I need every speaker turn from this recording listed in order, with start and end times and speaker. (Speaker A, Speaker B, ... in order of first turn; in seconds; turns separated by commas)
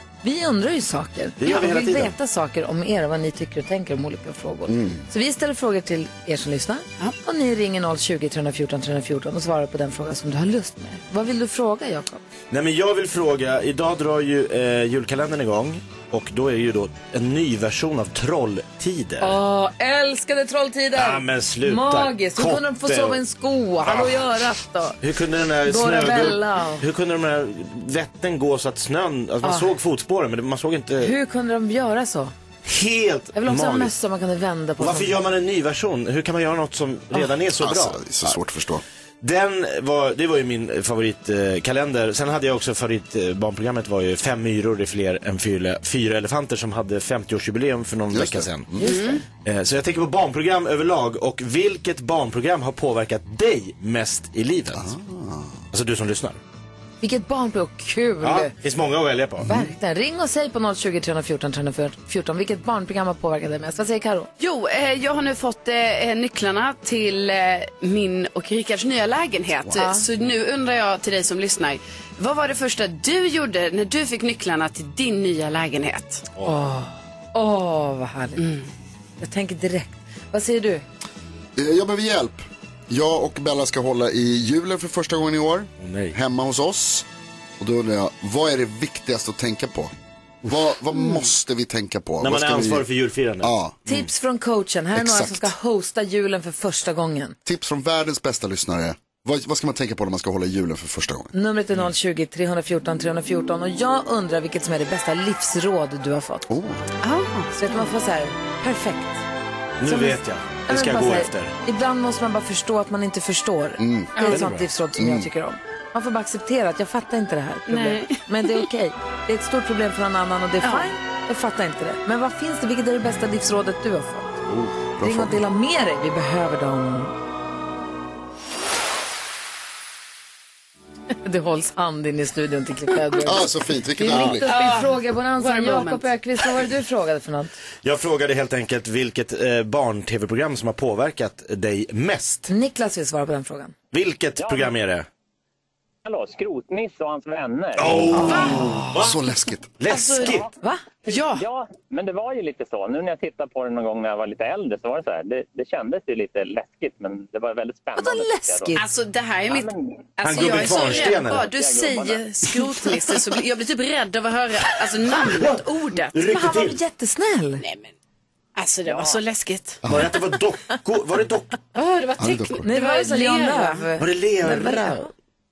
Speaker A: 0.2-12.2, Speaker B: 1.4-2.1, Speaker C: 4.7-5.0, Speaker B: 12.5-19.4, Speaker A: 19.2-25.0, Speaker B: 20.9-23.2, Speaker B: 23.9-24.2, Speaker B: 25.0-31.1, Speaker A: 25.6-26.9, Speaker A: 29.4-29.7, Speaker A: 31.0-32.3, Speaker B: 32.6-33.9, Speaker A: 33.3-35.2, Speaker B: 34.8-38.4, Speaker C: 37.6-38.8, Speaker B: 39.2-48.7, Speaker C: 48.1-48.8, Speaker D: 48.8-49.2, Speaker B: 49.3-54.9, Speaker C: 54.7-55.6, Speaker B: 55.7-56.4, Speaker A: 57.0-58.5, Speaker B: 58.2-59.5, Speaker A: 59.5-64.3, Speaker D: 64.4-76.2, Speaker A: 69.8-70.0, Speaker A: 76.4-78.4, Speaker D: 78.4-78.7, Speaker A: 79.2-80.8, Speaker C: 81.6-87.0, Speaker B: 85.8-86.2, Speaker C: 87.6-89.9, Speaker C: 90.4-92.9, Speaker B: 92.2-94.0, Speaker C: 93.4-93.8, Speaker A: 93.9-97.4, Speaker C: 95.0-95.5, Speaker C: 97.5-101.3, Speaker A: 101.3-106.5, Speaker C: 106.5-106.8, Speaker D: 107.0-107.9, Speaker A: 107.6-109.2, Speaker B: 109.8-111.5, Speaker A: 109.8-124.4, Speaker C: 113.8-114.4, Speaker D: 114.2-114.4, Speaker B: 114.3-114.7, Speaker C: 115.0-115.3, Speaker D: 117.7-118.7, Speaker D: 120.6-120.9, Speaker C: 124.5-125.4, Speaker A: 125.0-127.1, Speaker A: 131.2-137.6, Speaker C: 133.2-134.5, Speaker D: 134.2-136.1, Speaker B: 137.8-142.5, Speaker A: 142.5-143.7, Speaker B: 143.9-145.1, Speaker E: 144.4-144.7, Speaker E: 146.1-148.3, Speaker B: 147.8-149.2, Speaker D: 148.2-148.7, Speaker A: 148.2-148.8, Speaker C: 148.2-149.7, Speaker B: 149.8-150.5, Speaker D: 149.9-150.4, Speaker E: 150.2-150.5, Speaker D: 151.1-151.4, Speaker E: 151.1-158.8, Speaker A: 157.9-158.8, Speaker D: 158.8-166.2, Speaker E: 159.5-162.3, Speaker B: 160.2-161.5, Speaker B: 165.2-166.8, Speaker A: 166.3-167.6, Speaker D: 167.6-167.9, Speaker D: 168.6-169.8, Speaker E: 168.9-169.2, Speaker C: 169.8-170.1, Speaker B: 169.8-171.6, Speaker D: 171.8-173.9, Speaker C: 172.2-172.7, Speaker A: 172.7-175.1, Speaker B: 174.0-175.1